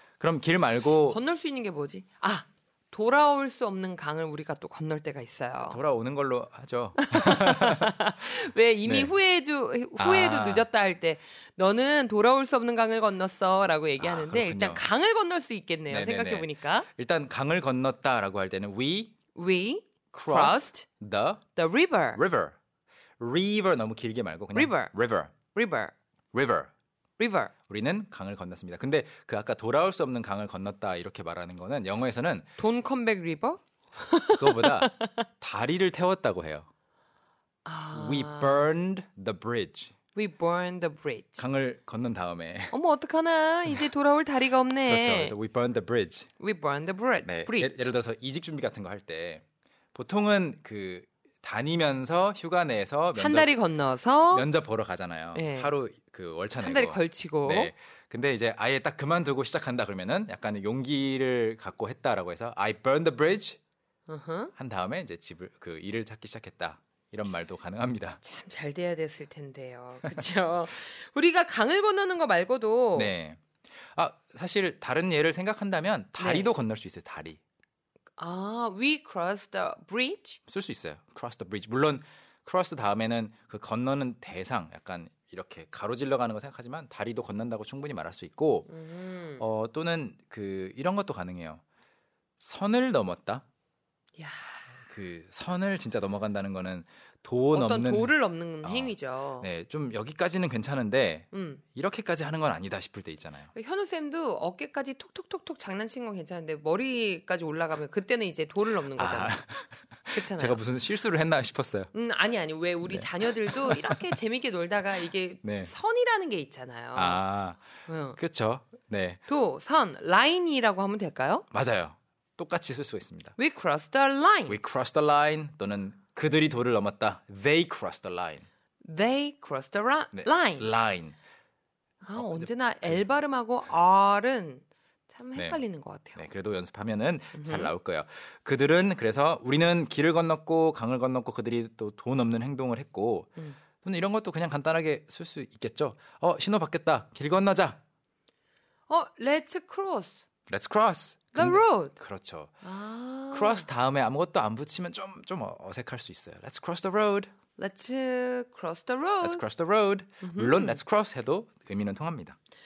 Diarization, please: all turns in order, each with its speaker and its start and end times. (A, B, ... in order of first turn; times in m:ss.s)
0:00.2-0:01.2 A
0:01.0-0:05.8 B
0:05.6-0:08.0 A
0:07.0-0:16.9 B
0:08.8-0:09.1 A
0:10.0-0:10.7 A
0:14.0-0:14.8 A
0:15.9-0:19.1 A
0:19.3-0:20.8 B
0:20.1-0:21.5 A
0:21.5-0:22.2 B
0:22.1-0:22.6 A
0:23.2-0:25.3 A
0:24.5-0:24.9 B
0:25.4-0:25.9 B
0:26.3-0:26.7 A
0:27.2-0:27.5 B
0:27.7-0:32.5 A
0:32.6-0:35.2 B
0:34.4-0:36.7 A
0:37.6-0:38.7 B
0:37.9-0:39.9 A
0:40.1-0:41.4 B
0:41.4-0:42.8 A
0:42.7-0:45.3 B
0:44.9-0:46.3 A
0:46.4-0:47.9 B
0:47.2-0:53.5 A
0:53.1-0:54.5 B
0:54.3-1:03.6 A
0:55.3-0:55.7 B
0:56.6-0:57.7 B
1:04.1-1:04.5 B
1:04.6-1:08.2 A
1:08.2-1:13.1 B
1:12.9-1:13.4 A
1:13.9-1:17.4 A
1:16.2-1:16.5 B
1:18.2-1:20.4 B
1:20.5-1:28.7 A
1:28.7-1:29.4 B
1:29.4-1:31.6 A
1:32.4-1:33.4 A
1:34.2-1:34.7 B
1:34.8-1:43.5 A
1:37.5-1:39.5 B
1:41.3-1:41.6 B
1:43.5-1:49.3 B
1:48.9-1:51.9 A
1:50.1-1:50.6 B
1:51.9-1:57.2 B
1:52.8-1:54.1 A
1:55.4-1:55.7 A
1:56.9-1:59.2 A
1:57.9-1:58.2 B
1:59.3-2:01.4 B
2:01.5-2:03.4 A
2:03.4-2:04.6 B
2:04.5-2:08.4 A
2:08.8-2:10.7 B
2:10.1-2:11.2 A
2:12.0-2:16.2 B
2:12.1-2:13.0 A
2:15.3-2:15.6 A
2:16.2-2:27.8 A
2:17.3-2:17.7 B
2:28.9-2:30.2 B
2:30.5-2:32.6 A
2:31.3-2:31.9 B
2:32.6-2:33.6 B
2:33.3-2:37.3 A
2:37.6-2:39.4 B
2:39.2-2:42.4 A
2:40.2-2:40.8 B